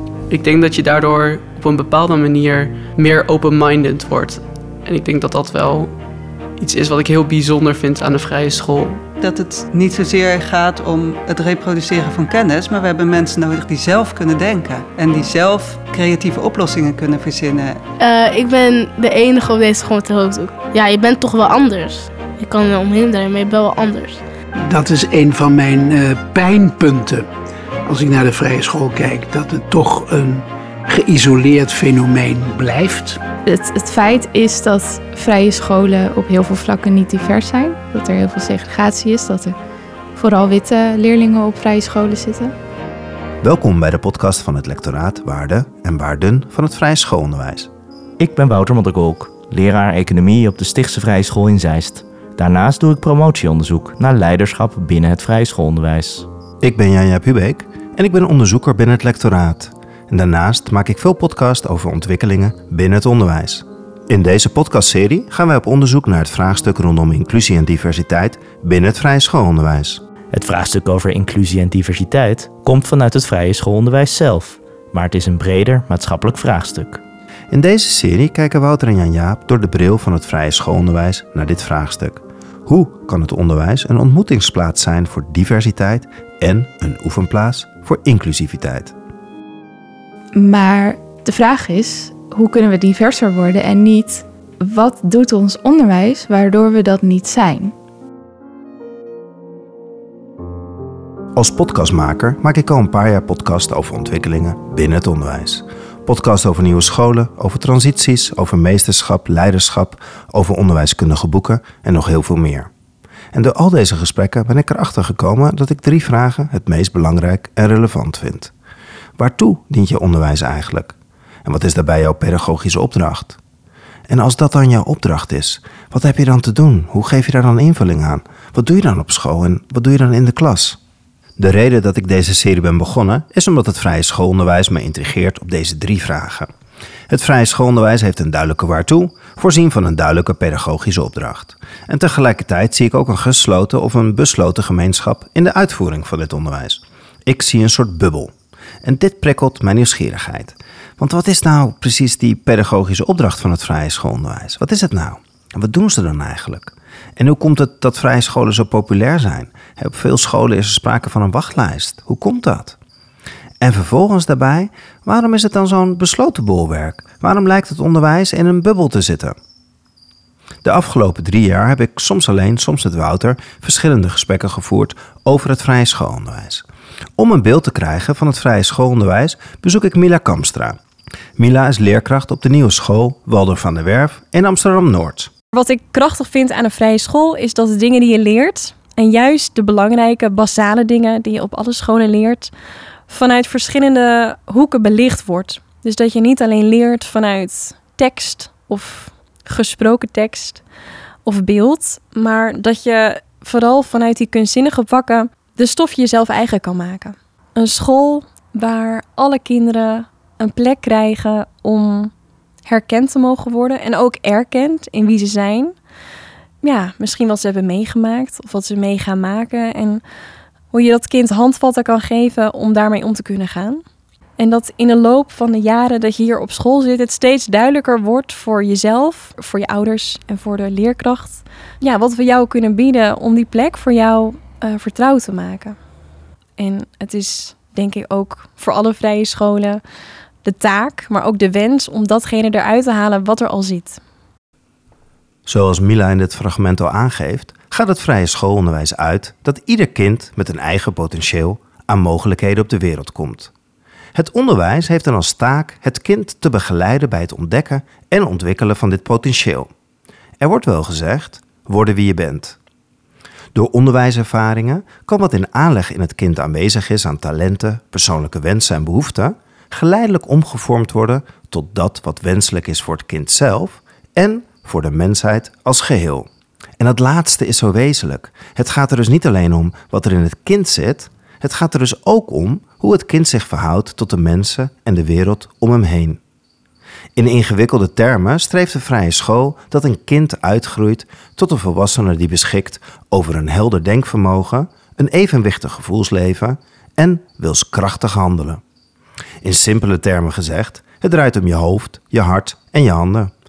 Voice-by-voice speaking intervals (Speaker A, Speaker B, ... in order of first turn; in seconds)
Speaker A: 0.3-6.0, 6.6-9.0
Speaker B: 9.2-17.8
Speaker C: 18.0-24.2
Speaker D: 24.6-27.3, 27.8-33.2
Speaker E: 33.4-39.5, 40.1-42.5, 90.3-97.7
Speaker F: 43.4-47.7, 56.6-70.0, 77.5-88.9, 101.3-112.7, 113.3-118.5, 119.2-123.4, 124.1-130.8, 131.4-136.5, 137.1-148.3, 148.8-162.8, 163.6-169.3, 170.6-176.6, 177.2-180.8, 181.4-185.3, 245.4-253.5, 254.1-259.7, 260.4-262.6, 263.5-276.3, 276.8-286.2, 287.1-298.6, 299.4-303.3
Speaker G: 48.2-56.3, 70.3-77.0
Speaker H: 185.5-192.5, 193.1-200.6, 201.2-212.1, 212.7-215.7, 216.6-220.0, 220.7-223.8, 224.4-235.8, 236.6-239.8, 240.4-244.0